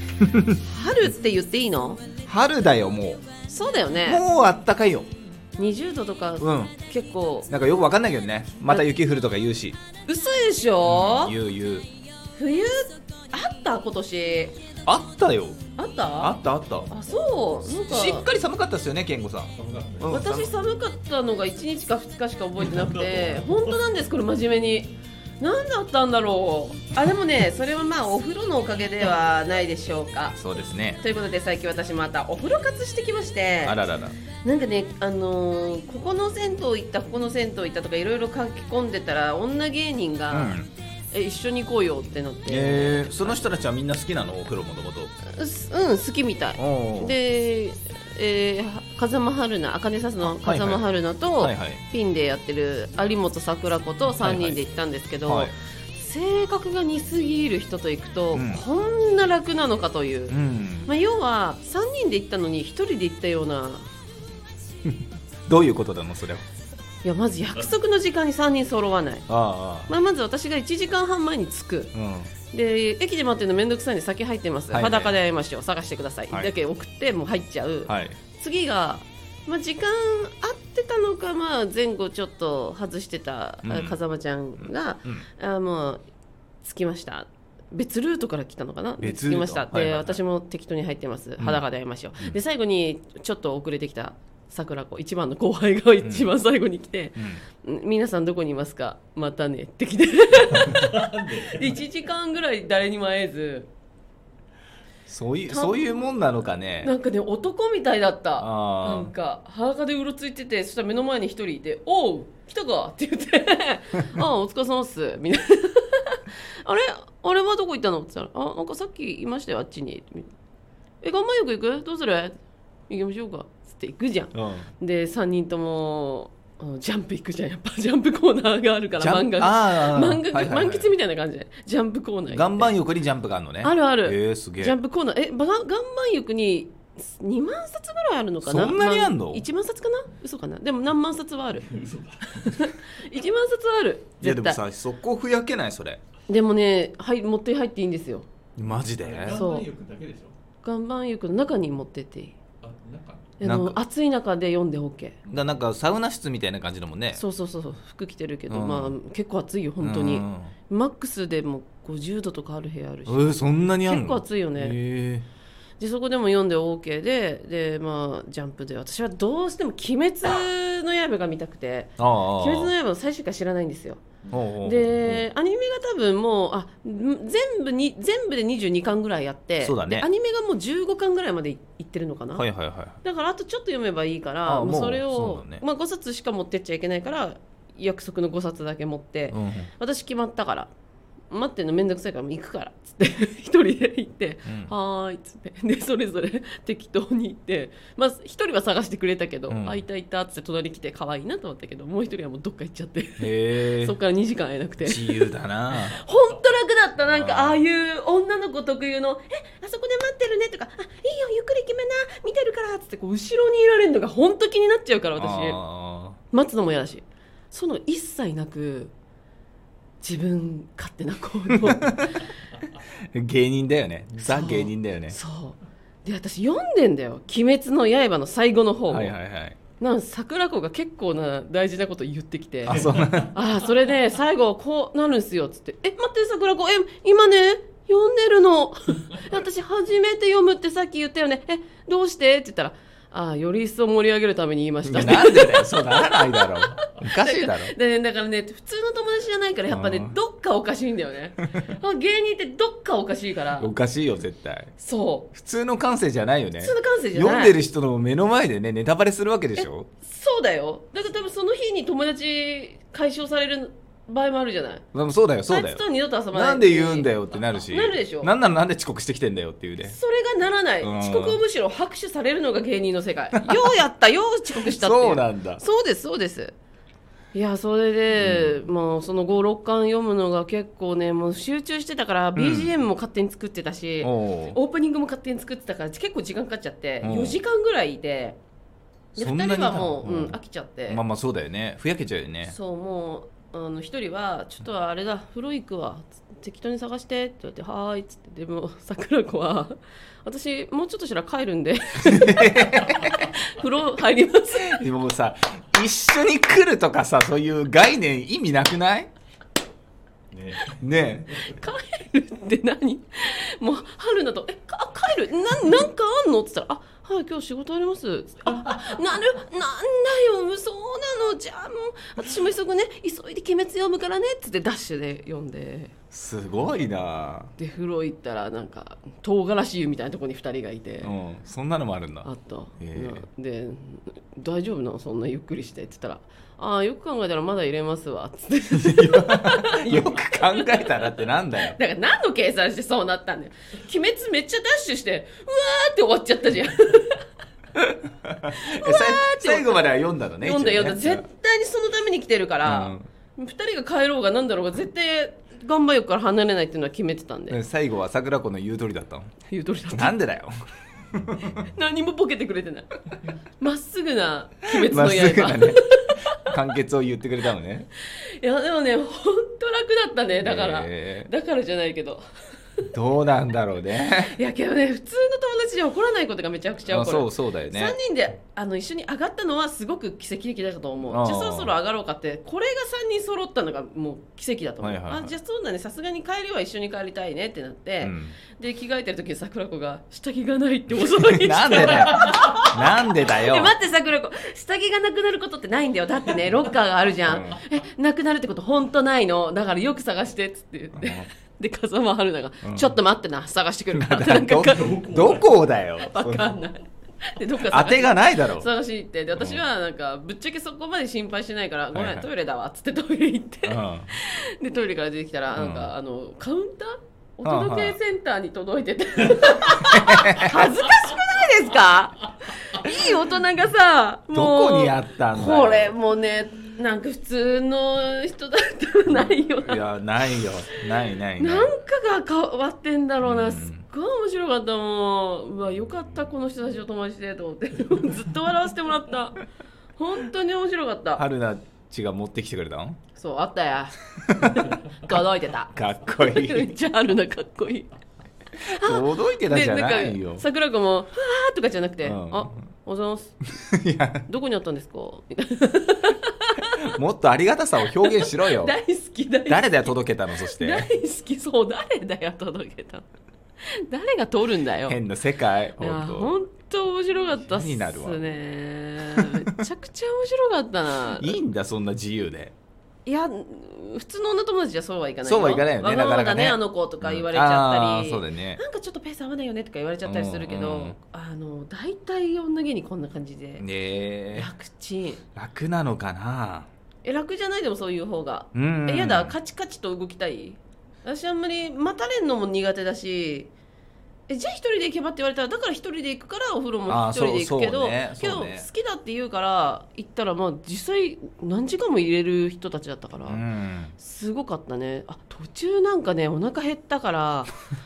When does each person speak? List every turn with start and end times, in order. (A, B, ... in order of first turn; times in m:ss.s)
0:00.3-0:00.6 A
0:00.4-0:02.0 B
0:02.2-0:03.3 A
0:03.5-0:04.2 B
0:04.0-0:05.1 A
0:05.6-0:07.5 B
0:06.4-0:06.7 A
0:07.5-0:09.8 A
0:10.0-0:11.4 B
0:10.8-0:11.9 A
0:12.4-0:14.6 B
0:14.8-0:15.6 A
0:15.8-0:18.3 B
0:16.2-0:16.9 A
0:17.9-0:20.5 A
0:19.6-0:20.3 C
0:20.1-0:30.4 B
0:22.8-0:23.2 C
0:30.3-0:31.0 A
0:31.0-0:33.8 B
0:33.6-0:34.2 A
0:34.4-0:40.6 B
0:40.3-0:40.7 A
0:41.1-0:43.4 B
0:42.5-0:45.1 A
0:45.2-1:03.9 B
0:46.6-0:47.1 A
0:50.2-0:50.8 A
0:51.4-0:51.8 A
0:54.2-0:54.6 A
0:55.3-0:55.5 A
0:58.3-0:58.6 A
1:00.3-1:00.9 A
1:04.8-1:06.5 A
1:07.0-1:09.3 B
1:09.3-1:09.9 A
1:09.9-1:11.9 B
1:11.9-1:12.3 A
1:12.5-1:26.0 B
1:14.7-1:15.1 A
1:17.9-1:18.2 A
1:23.6-1:24.0 A
1:24.6-1:25.3 A
1:26.6-1:43.7 B
1:29.0-1:30.2 A
1:36.0-1:36.3 A
1:37.2-1:37.4 A
1:40.7-1:41.6 C
1:45.1-1:46.9 A
1:45.5-1:45.9 B
1:46.8-2:00.3 B
1:48.4-1:49.1 A
2:01.0-2:02.4 B
2:02.9-2:12.8 B
2:04.3-2:04.7 A
2:09.0-2:10.9 A
2:12.3-2:14.8 A
2:13.6-2:21.7 B
2:18.4-2:19.4 A
2:21.6-2:22.7 C
2:22.4-2:24.6 B
2:24.2-2:26.0 A
2:26.3-2:28.3 B
2:28.6-2:29.5 A
2:28.9-2:30.4 C
2:29.3-2:29.7 B
2:30.6-2:32.4 B
2:32.6-2:33.3 C
2:33.4-2:35.2 B
2:33.4-2:33.8 A
2:35.3-2:37.2 A
2:37.1-2:44.8 B
2:38.5-2:39.0 A
2:39.8-2:40.5 A
2:43.1-2:45.3 A
2:45.8-2:54.0 B
2:52.0-2:52.7 A
2:54.3-2:55.3 A
2:54.6-3:02.4 B
2:59.6-3:00.1 A
3:02.4-3:03.0 A
3:03.0-3:10.7 B
3:04.5-3:05.6 A
3:09.3-3:09.7 A
3:11.3-3:35.6 B
3:14.5-3:14.7 A
3:19.5-3:19.8 A
3:23.2-3:24.0 A
3:24.8-3:26.0 A
3:27.0-3:27.6 A
3:35.2-3:36.2 A
3:36.3-3:38.9 B
3:40.0-3:42.3 B
3:41.6-3:42.2 A
3:42.9-3:45.2 A
3:44.2-3:49.2 B
3:48.9-3:49.6 A
3:49.8-4:13.7 B
3:52.6-3:53.4 A
4:04.8-4:07.7 A
4:09.7-4:10.1 A
4:13.6-4:14.7 A
4:14.8-4:15.3 B
4:15.3-4:19.9 A
4:16.6-4:17.6 B
4:19.6-4:24.8 B
4:24.9-4:30.0 A
4:25.5-4:28.3 B
4:29.8-4:36.6 B
4:30.8-4:31.4 A
4:33.4-4:33.7 A
4:34.6-4:35.6 A
4:37.3-4:48.4 B
4:38.2-4:38.6 A
4:42.4-4:42.7 A
4:44.0-4:44.6 A
4:47.0-4:47.4 A
4:49.2-4:50.4 A
4:49.2-4:51.0 B
4:50.9-4:52.5 A
4:52.4-5:04.8 B
5:02.0-5:03.3 A
5:04.6-5:09.1 A
5:10.3-5:10.8 C
5:10.6-5:11.4 A
5:11.4-5:25.9 B
5:26.1-5:27.5 A
5:27.6-5:31.1 B
5:31.0-5:32.3 A
5:32.2-5:47.2 B
5:32.8-5:33.2 A
5:38.7-5:41.8 A
5:47.8-5:51.2 A
5:48.5-5:57.6 B
5:52.6-5:53.1 A
5:57.5-5:59.3 A
5:59.5-6:00.2 B
5:59.9-6:01.6 A
6:01.4-6:06.5 B
6:04.7-6:07.9 A
6:08.0-6:12.2 B
6:10.4-6:11.3 A
6:12.9-6:14.3 A
6:14.2-6:45.4 B
6:16.9-6:18.0 A
6:21.1-6:21.7 A
6:24.8-6:25.3 A
6:28.0-6:28.4 A
6:31.0-6:33.7 A
6:37.2-6:37.6 A
6:41.0-6:41.3 A
6:42.6-6:42.9 A
6:43.9-6:46.5 A
6:45.0-6:45.3 C
6:46.0-7:10.8 B
6:47.7-6:48.7 A
6:49.4-6:49.6 A
6:52.0-6:52.3 A
6:53.6-6:54.1 A
6:55.6-6:55.9 A
6:57.4-6:58.0 A
6:59.9-7:00.6 A
7:04.3-7:06.0 A
7:09.6-7:11.7 A
7:11.4-7:19.4 B
7:13.2-7:13.8 A
7:20.0-7:21.2 B
7:21.2-7:23.0 A
7:23.2-7:27.9 B
7:24.3-7:26.8 A
7:28.5-7:33.4 B
7:28.6-7:30.4 A
7:32.0-7:32.6 A
7:33.6-7:34.3 A
7:34.3-7:36.9 B
7:36.8-7:38.8 A
7:38.0-7:43.1 B
7:39.5-7:40.9 A
7:43.7-7:45.0 B
7:44.9-7:46.3 A
7:45.8-7:51.4 B
7:47.5-7:48.2 A
7:51.0-7:52.5 A
7:53.1-8:03.6 B
7:55.2-7:58.6 A
8:00.0-8:01.0 A
8:03.6-8:04.5 A
8:04.3-8:05.2 B
8:05.4-8:06.7 A
8:07.0-8:13.5 B
8:08.5-8:09.4 A
8:14.3-8:23.4 B
8:16.9-8:18.7 A
8:23.3-8:24.0 A
8:24.0-8:27.5 B